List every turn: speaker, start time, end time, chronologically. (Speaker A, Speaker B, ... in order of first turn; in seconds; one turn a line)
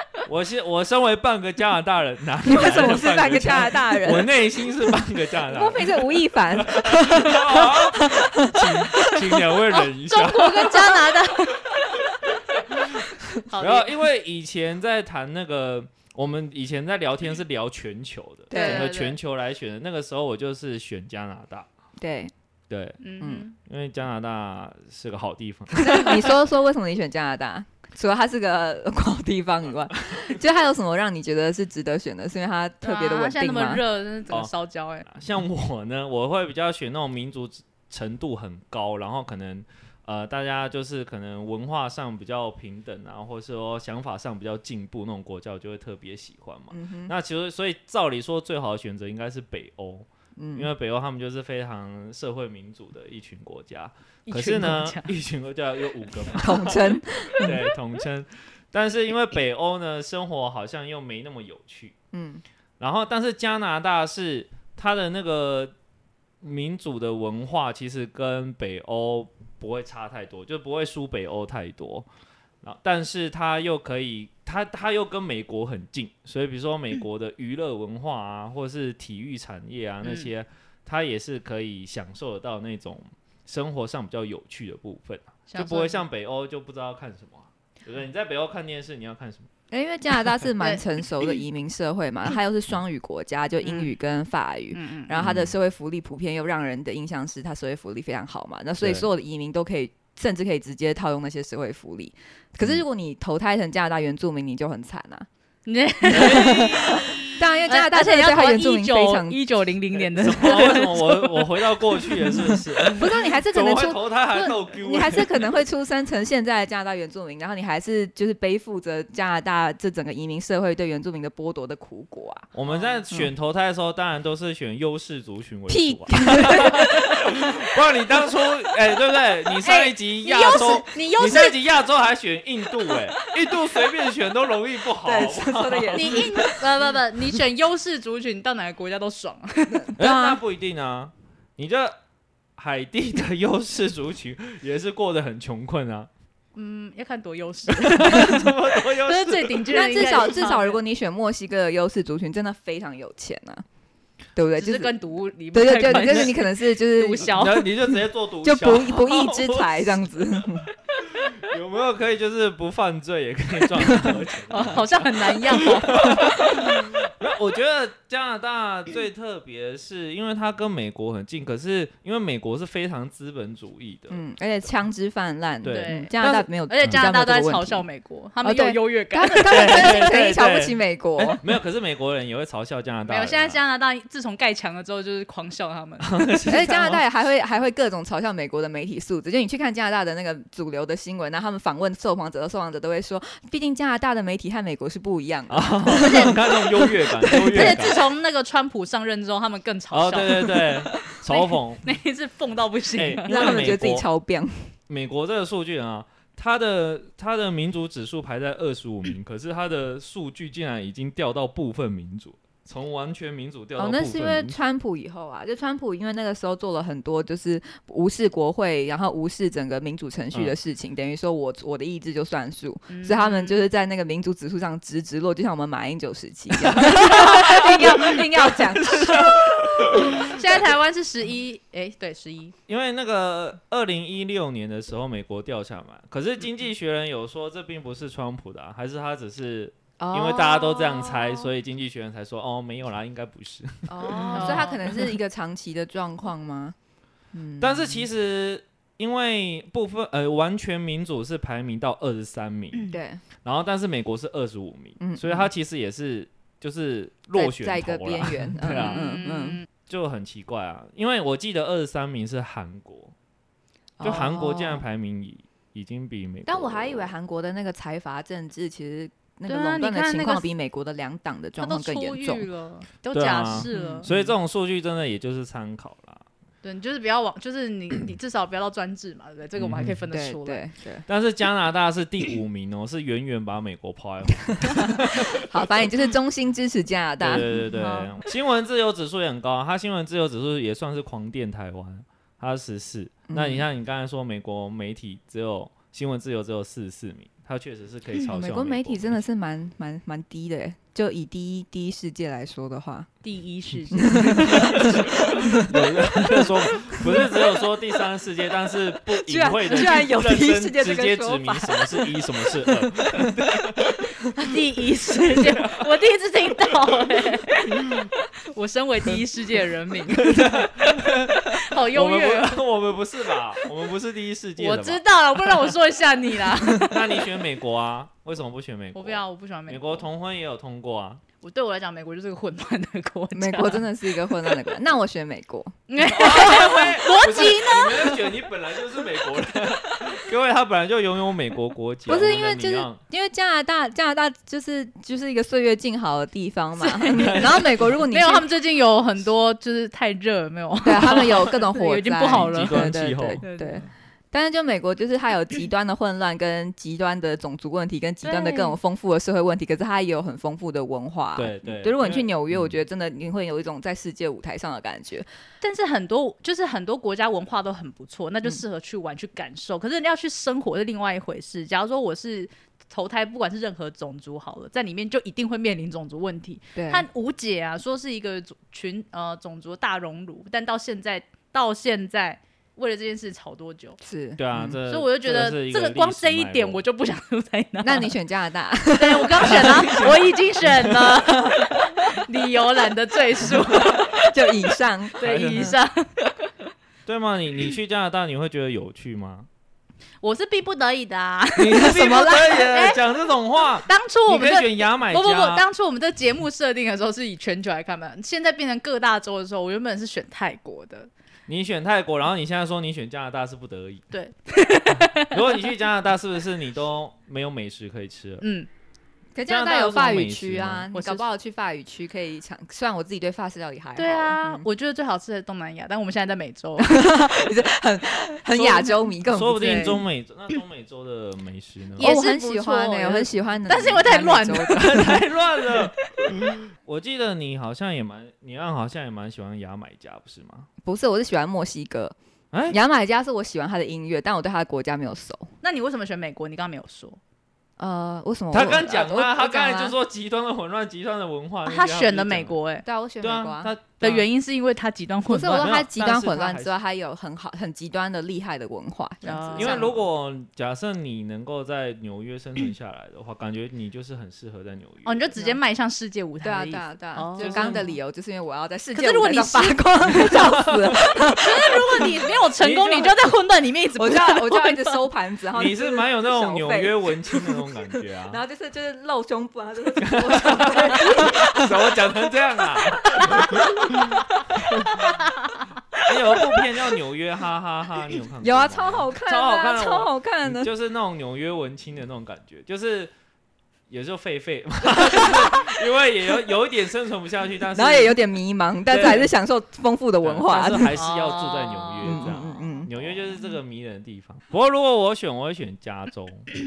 Speaker A: 0.3-11.0
Speaker B: 2.5-4.3
Speaker B: 5.5-9.5
Speaker C: 10.0-11.9
Speaker C: 13.4-14.0
Speaker A: 13.6-21.7
Speaker B: 18.5-18.9
Speaker C: 18.5-19.2
Speaker B: 22.0-22.3
Speaker A: 22.7-23.0
Speaker C: 23.0-23.6
Speaker A: 23.6-26.3
Speaker B: 25.8-33.8
Speaker C: 32.8-35.1
Speaker A: 35.1-62.0
Speaker B: 46.7-47.1
Speaker B: 50.4-50.7
Speaker C: 54.3-55.1
Speaker B: 56.4-57.7
Speaker B: 62.1-62.4
Speaker A: 62.8-65.7
Speaker A: 66.4-72.1
Speaker A: 72.6-89.5
Speaker C: 85.5-86.0
Speaker B: 89.7-105.3
Speaker C: 93.6-93.9
Speaker C: 94.7-95.1
Speaker A: 95.2-95.5
Speaker A: 98.8-99.1
Speaker C: 105.7-107.2
Speaker A: 106.1-107.5
Speaker B: 106.1-109.4
Speaker C: 107.7-111.5
Speaker A: 110.0-115.5
Speaker B: 112.5-122.5
Speaker A: 122.5-136.3
Speaker C: 122.7-123.0
Speaker B: 125.7-127.5
Speaker C: 129.6-131.6
Speaker B: 135.0-136.7
Speaker C: 135.9-139.9
Speaker B: 139.7-140.4
Speaker A: 140.0-142.0
Speaker A: 142.6-146.1
Speaker C: 146.6-150.8
Speaker A: 147.7-149.7
Speaker B: 149.7-153.6
Speaker B: 154.3-154.9
Speaker C: 154.6-157.7
Speaker B: 155.5-160.7
Speaker A: 155.8-156.3
Speaker A: 157.3-160.5
Speaker A: 161.1-174.3
Speaker B: 163.8-164.2
Speaker C: 164.5-166.4
Speaker B: 174.1-177.8
Speaker A: 175.6-176.1
Speaker C: 175.7-180.1
Speaker B: 178.4-181.4
Speaker A: 179.4-183.6
Speaker C: 183.1-186.7
Speaker A: 186.0-187.0
Speaker B: 186.5-197.8
Speaker A: 195.5-198.1
Speaker C: 196.0-196.3
Speaker C: 197.4-200.7
Speaker A: 199.9-201.9
Speaker C: 201.3-203.4
Speaker A: 203.0-204.1
Speaker B: 203.3-204.7
Speaker A: 204.9-214.6
Speaker B: 213.8-230.3
Speaker C: 222.9-223.6
Speaker A: 227.4-228.0
Speaker A: 228.6-230.3
Speaker C: 230.2-232.6
Speaker A: 232.7-244.6
Speaker B: 240.0-241.5
Speaker B: 243.9-246.8
Speaker C: 244.0-244.8
Speaker B: 247.3-248.0
Speaker A: 247.6-259.1
Speaker B: 252.9-253.2
Speaker B: 255.0-255.5
Speaker B: 257.4-259.6
Speaker C: 258.8-259.6
Speaker A: 259.9-263.1
Speaker B: 264.0-264.9
Speaker A: 264.0-267.1
Speaker B: 266.5-272.4
Speaker C: 269.5-270.5
Speaker C: 271.6-274.1
Speaker A: 273.1-276.2
Speaker B: 273.7-274.3
Speaker C: 276.6-280.6
Speaker A: 279.6-280.0
Speaker B: 280.1-281.1
Speaker A: 281.1-285.9
Speaker B: 284.6-287.5
Speaker A: 287.2-299.2
Speaker C: 287.7-288.1
Speaker B: 293.3-293.6
Speaker B: 298.3-303.1
Speaker C: 303.2-305.0
Speaker B: 303.9-305.7
Speaker A: 304.3-314.1
Speaker B: 309.2-313.3
Speaker C: 314.4-320.7
Speaker A: 315.3-315.9
Speaker A: 317.8-318.1
Speaker A: 320.2-325.0
Speaker C: 321.4-322.6
Speaker C: 324.6-327.2
Speaker A: 326.7-331.2
Speaker C: 328.9-330.1
Speaker C: 331.4-334.6
Speaker B: 333.3-335.8
Speaker C: 335.9-338.2
Speaker A: 336.0-343.0
Speaker B: 342.1-348.5
Speaker C: 346.8-347.3
Speaker A: 347.1-348.0
Speaker C: 348.1-352.9
Speaker B: 350.8-365.3
Speaker A: 352.3-353.4
Speaker C: 353.4-353.9
Speaker C: 358.2-358.8
Speaker A: 361.4-362.8
Speaker C: 365.6-384.0
Speaker B: 376.8-377.1
Speaker B: 384.0-384.8
Speaker A: 384.4-386.8
Speaker C: 384.9-388.1
Speaker B: 387.8-390.0
Speaker C: 388.9-394.1
Speaker A: 389.6-390.9
Speaker B: 391.4-391.7
Speaker B: 393.9-395.7
Speaker C: 395.2-396.1
Speaker A: 395.2-395.7
Speaker A: 397.1-399.5
Speaker C: 400.2-403.0
Speaker A: 401.6-405.6
Speaker B: 401.7-402.7
Speaker C: 403.9-411.1
Speaker A: 411.5-414.0
Speaker C: 414.1-415.6
Speaker A: 415.1-418.4
Speaker C: 418.4-418.7
Speaker B: 419.4-424.6
Speaker A: 419.5-420.9
Speaker C: 420.9-421.2
Speaker C: 424.0-427.2
Speaker B: 426.8-430.0
Speaker A: 429.3-432.1
Speaker C: 429.6-430.0
Speaker C: 432.0-435.1
Speaker B: 432.0-435.2
Speaker A: 434.7-440.7
Speaker B: 440.8-442.1
Speaker A: 442.5-442.8
Speaker B: 442.7-445.5
Speaker C: 445.6-447.2
Speaker B: 447.8-449.9
Speaker A: 448.5-452.6
Speaker C: 451.6-452.9
Speaker B: 452.9-453.7
Speaker A: 453.2-454.2
Speaker C: 454.0-455.7
Speaker B: 455.3-459.9
Speaker A: 455.5-456.7
Speaker C: 459.2-459.8
Speaker A: 459.6-465.2
Speaker C: 465.1-467.8
Speaker B: 466.4-471.8
Speaker A: 467.4-467.9
Speaker C: 468.9-470.4
Speaker A: 470.2-471.0
Speaker C: 471.3-475.0
Speaker A: 472.6-473.1
Speaker B: 474.0-477.6
Speaker A: 475.6-478.4
Speaker B: 478.3-481.8
Speaker A: 480.0-484.1
Speaker C: 483.2-483.6
Speaker B: 483.2-483.8
Speaker A: 486.0-493.1
Speaker B: 488.4-490.7
Speaker A: 493.9-498.2
Speaker B: 495.0-495.7
Speaker B: 497.8-501.0
Speaker A: 498.9-499.3
Speaker A: 500.2-506.5
Speaker C: 500.9-502.3
Speaker B: 502.0-503.1